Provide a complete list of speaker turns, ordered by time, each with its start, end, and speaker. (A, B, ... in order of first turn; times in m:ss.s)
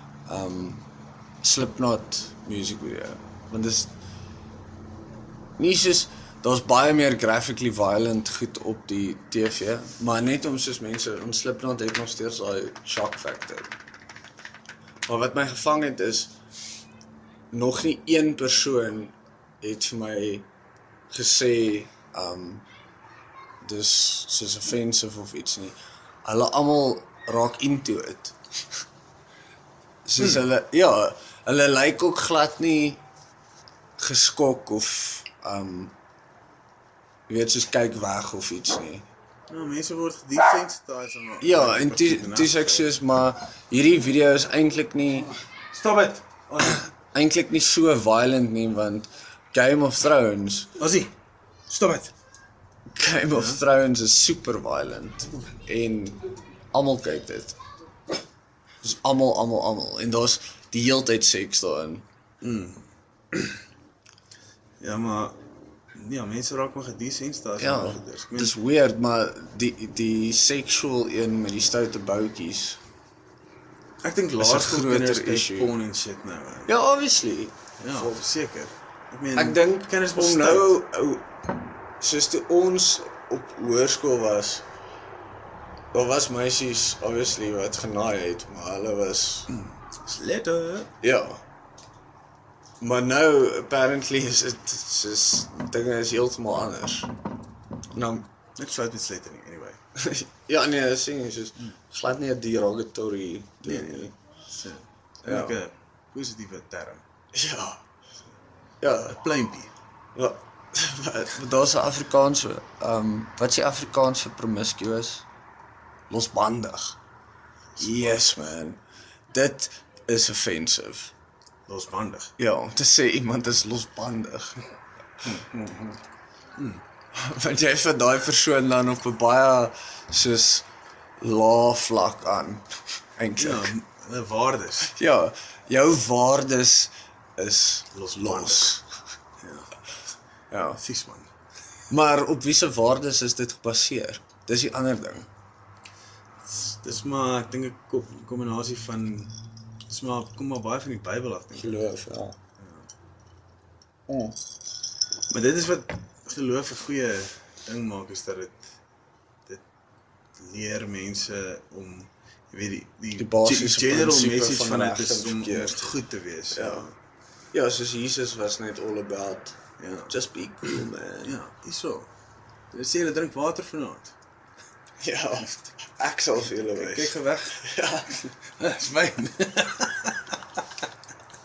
0:00.2-0:00.8 A
0:01.4-0:03.9 A
0:05.6-0:13.7 A
0:15.1-0:16.3 A
0:17.5-0:20.4 A
0:21.1-0:22.6 A
0:23.6-0:28.4 A
0:30.0-0:33.0 A
0:30.2-0:30.4 B
0:34.0-0:35.9 A
0:37.3-0:39.0 A
0:39.5-0:42.9 B
0:41.4-0:45.3 A
0:45.7-0:46.9 B
0:47.1-0:50.8 A
0:50.8-0:51.1 B
0:51.7-0:52.1 B
0:52.9-0:57.6 A
0:53.3-0:53.6 B
0:58.8-1:02.0 A
1:02.4-1:03.6 B
1:04.8-1:05.4 B
1:05.9-1:08.6 B
1:07.6-1:12.8 A
1:14.0-1:16.7 B
1:14.4-1:15.7 A
1:16.7-1:18.2 A
1:17.8-1:20.7 B
1:19.3-1:24.6 A
1:25.9-1:29.5 A
1:29.5-1:30.9 B
1:31.0-1:31.4 A
1:32.8-1:37.1 A
1:37.9-1:38.3 A
1:38.6-1:39.8 B
1:39.9-1:44.1 A
1:43.6-1:47.0 B
1:45.2-1:45.6 A
1:47.3-1:47.8 A
1:48.8-1:49.2 A
1:49.0-1:49.7 B
1:50.1-1:55.2 A
1:56.1-1:57.0 A
1:57.8-1:58.3 B
1:57.8-1:58.8 A
1:59.3-2:01.1 A
2:01.7-2:02.3 B
2:02.4-2:04.6 A
2:05.2-2:06.0 A
2:06.6-2:06.8 B
2:07.1-2:10.6 A
2:11.2-2:12.6 A
2:13.2-2:13.7 A
2:13.4-2:14.9 B
2:14.9-2:18.8 A
2:17.9-2:18.8 B
2:19.4-2:19.7 B
2:20.5-2:20.8 A
2:20.8-2:21.3 B
2:21.9-2:25.3 A
2:26.4-2:29.4 B
2:29.9-2:31.8 B
2:31.5-2:32.4 A
2:32.6-2:32.9 B
2:34.1-2:34.4 A
2:35.3-2:38.7 B
2:40.4-2:46.9 B
2:43.2-2:45.9 A
2:46.5-2:46.9 A
2:47.5-2:51.4 A
2:49.8-2:50.1 B
2:50.7-2:52.1 B
2:52.7-2:54.1 B
2:55.0-2:58.2 A
2:56.7-2:57.7 B
2:58.2-3:00.6 B